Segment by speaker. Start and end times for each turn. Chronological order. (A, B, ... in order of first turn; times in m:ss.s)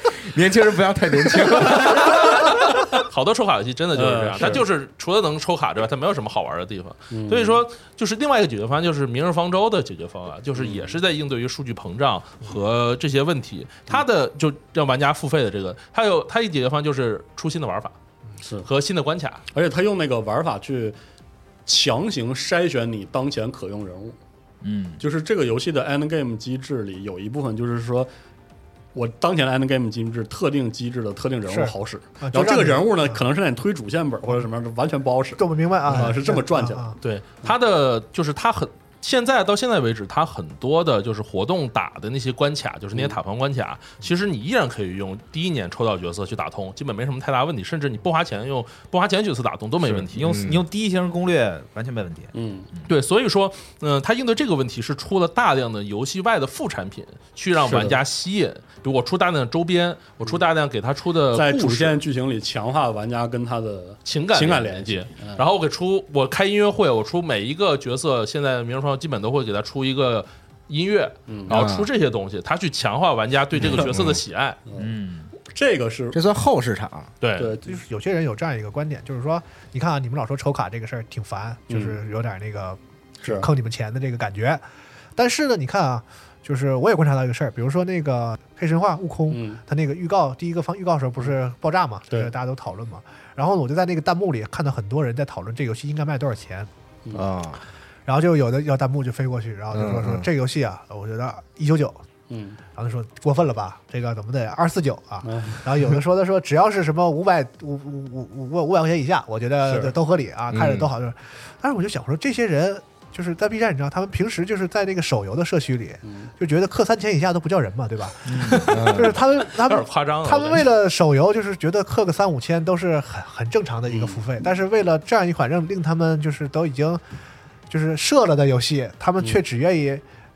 0:00.2-0:02.6 A
0:01.7-0:18.0 B
0:04.0-0:04.6 C
0:07.1-0:07.6 C
0:10.6-0:11.0 C
0:18.4-0:18.7 C
0:18.6-0:19.4 B
0:19.5-0:21.0 C
0:21.7-0:24.2 C
0:24.6-0:25.0 D
0:25.0-0:28.1 C
0:28.9-0:37.0 C
0:31.5-0:33.2 E
0:35.4-0:37.0 E
0:37.0-0:50.3 B
0:50.1-0:52.9 D
0:50.2-0:50.6 A
0:52.3-0:52.7 C
0:52.9-1:02.0 B
0:57.6-0:58.0 C
1:01.3-1:05.4 C
1:04.0-1:14.6 B
1:11.3-1:11.7 C
1:11.5-1:11.9 A
1:13.6-1:13.9 C
1:13.8-1:14.2 A
1:14.8-1:15.3 D
1:15.4-1:16.2 C
1:16.1-1:17.1 A
1:17.2-1:17.6 B
1:17.4-1:17.8 C
1:17.7-1:24.6 E
1:21.7-1:22.0 C
1:23.2-1:23.5 C
1:25.2-1:36.7 E
1:29.3-1:29.6 C
1:37.1-1:37.6 A
1:38.1-1:42.0 E
1:39.7-1:40.3 A
1:42.3-1:42.6 C
1:42.8-2:07.0 E
1:45.2-1:45.7 C
1:49.6-1:49.9 C
1:50.5-1:50.9 A
1:56.0-1:56.3 C
1:58.2-1:58.8 D
1:58.7-1:59.2 A
1:59.5-2:00.7 B
2:03.9-2:04.2 C
2:07.7-2:10.0 E